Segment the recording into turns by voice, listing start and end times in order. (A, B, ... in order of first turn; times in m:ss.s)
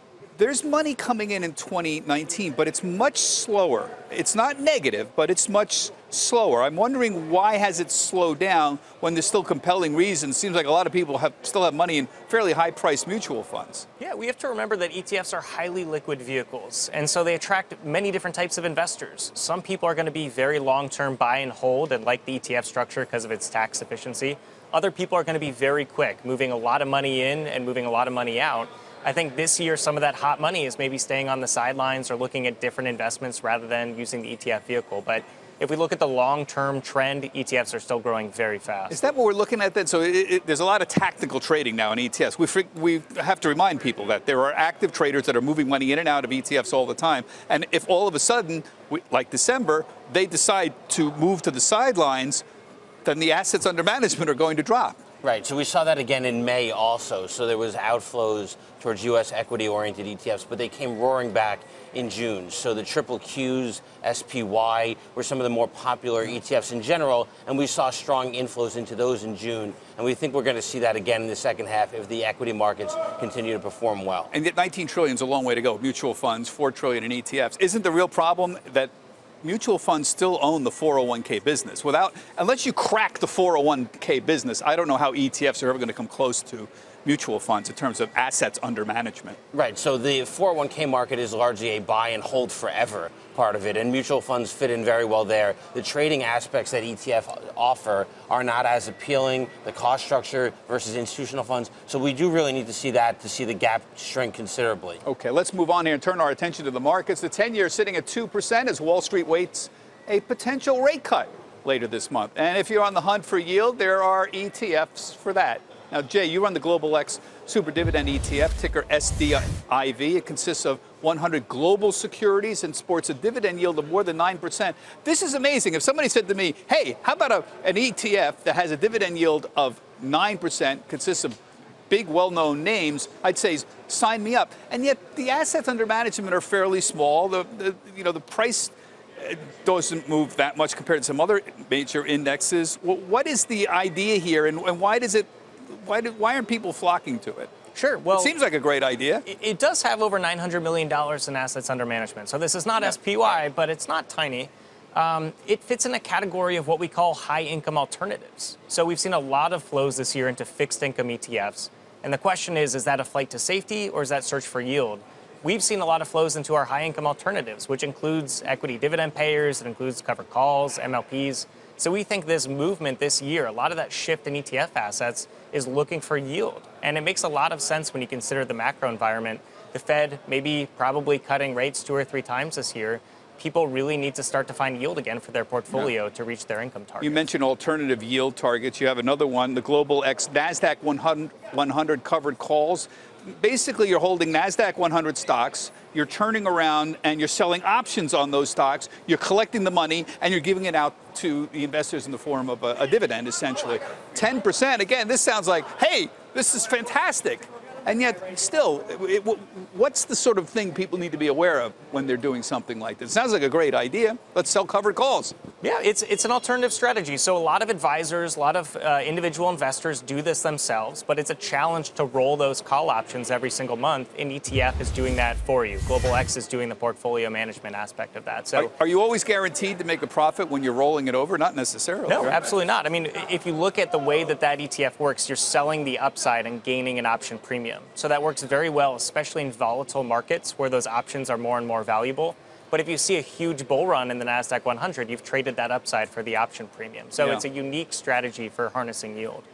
0:00.4-0:13.9 A
0:14.0-0:39.0 B
0:38.9-0:52.4 A
0:53.0-0:55.0 A
0:55.2-1:14.3 C
1:14.3-1:18.9 A
1:19.4-1:29.4 A
1:29.5-1:45.0 C
1:45.0-2:11.4 A
2:11.9-2:27.5 A
2:27.8-2:28.4 B
2:28.1-2:29.2 A
2:29.3-3:07.3 B
3:07.0-3:35.4 A
3:35.6-3:48.7 B
3:48.6-3:52.4 A
3:52.1-4:09.4 B